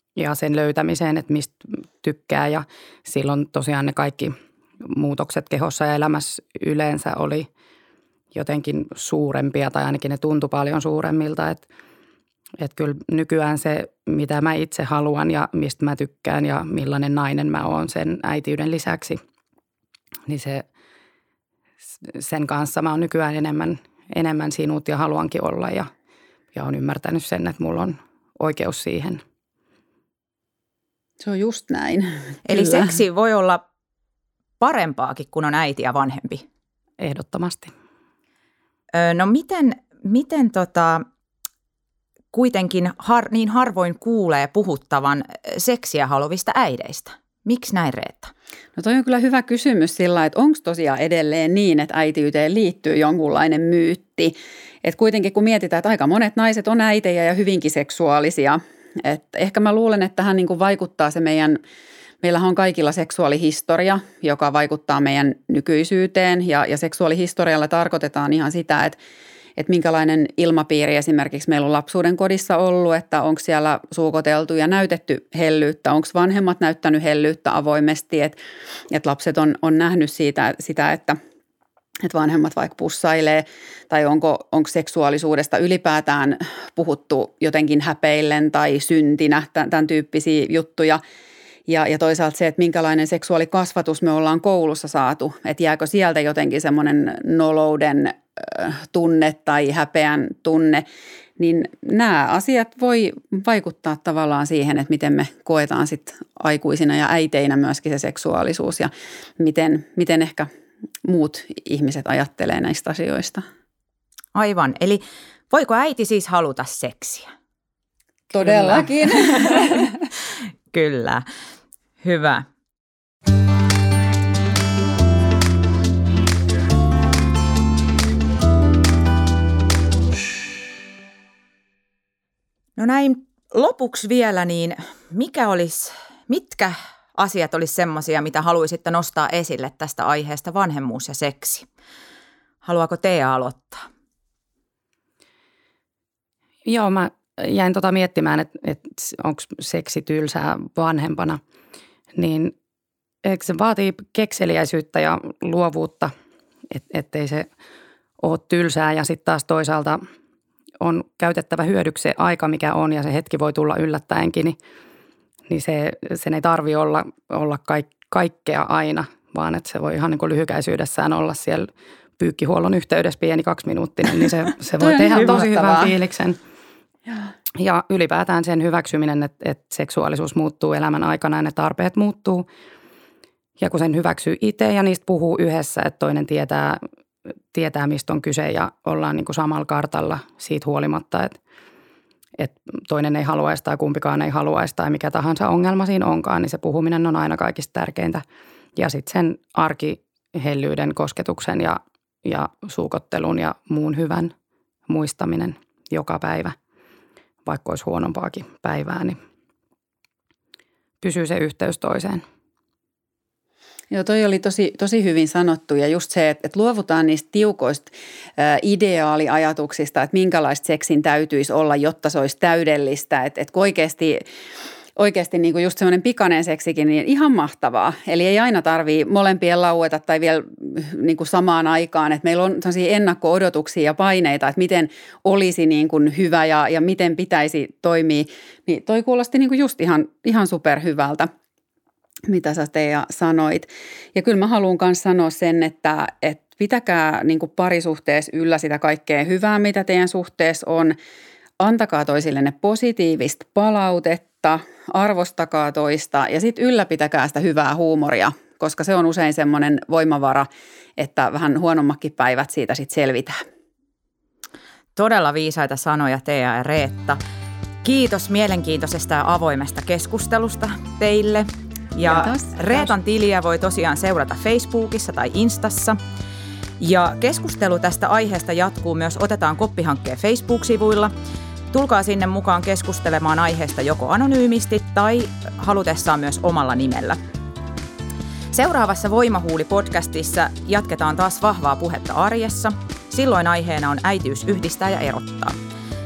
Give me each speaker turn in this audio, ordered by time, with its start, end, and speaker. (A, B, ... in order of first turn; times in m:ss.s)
0:00.2-0:07.5 A
0:08.3-0:11.7 A
0:12.6-0:19.2 A
0:20.3-0:20.6 A
0:22.0-0:25.9 A
0:26.5-0:29.2 A
0:31.2-0:33.0 B
0:32.5-0:33.6 C
0:34.6-0:36.4 C
0:37.0-0:37.7 A
0:38.9-0:41.0 C
0:42.3-0:48.3 C
0:48.8-1:01.6 B
1:02.2-1:09.0 B
1:09.6-1:18.4 B
1:18.9-1:21.2 B
1:22.0-1:31.0 B
1:31.7-1:40.8 B
1:41.4-1:50.5 B
1:51.0-1:53.4 B
1:54.3-1:57.3 C
1:58.3-2:00.0 B
1:58.5-1:59.8 C
2:00.7-2:01.3 C
2:02.0-2:02.5 C
2:12.8-2:21.7 C
2:22.6-2:23.9 C
2:26.7-2:31.4 A
2:32.2-2:32.5 A
2:33.2-2:36.1 A
2:36.7-2:37.5 A
2:38.2-2:40.0 A
2:40.8-2:44.6 A
2:45.5-2:56.4 A
2:54.8-2:55.9 B
2:57.6-3:02.5 A
3:03.6-3:06.8 A
3:07.5-3:11.4 A
3:12.4-3:18.2 A
3:18.8-3:24.3 A
3:24.9-3:26.6 A
3:27.4-3:29.2 A
3:31.0-3:32.2 A
3:33.9-3:44.2 B
3:45.0-4:01.3 B
4:02.3-4:11.0 B
4:11.6-4:23.4 B
4:25.0-4:27.2 C
4:27.8-4:36.0 C
4:32.0-4:32.9 B
4:36.8-4:41.1 C
4:41.7-4:47.2 C
4:48.5-4:55.6 C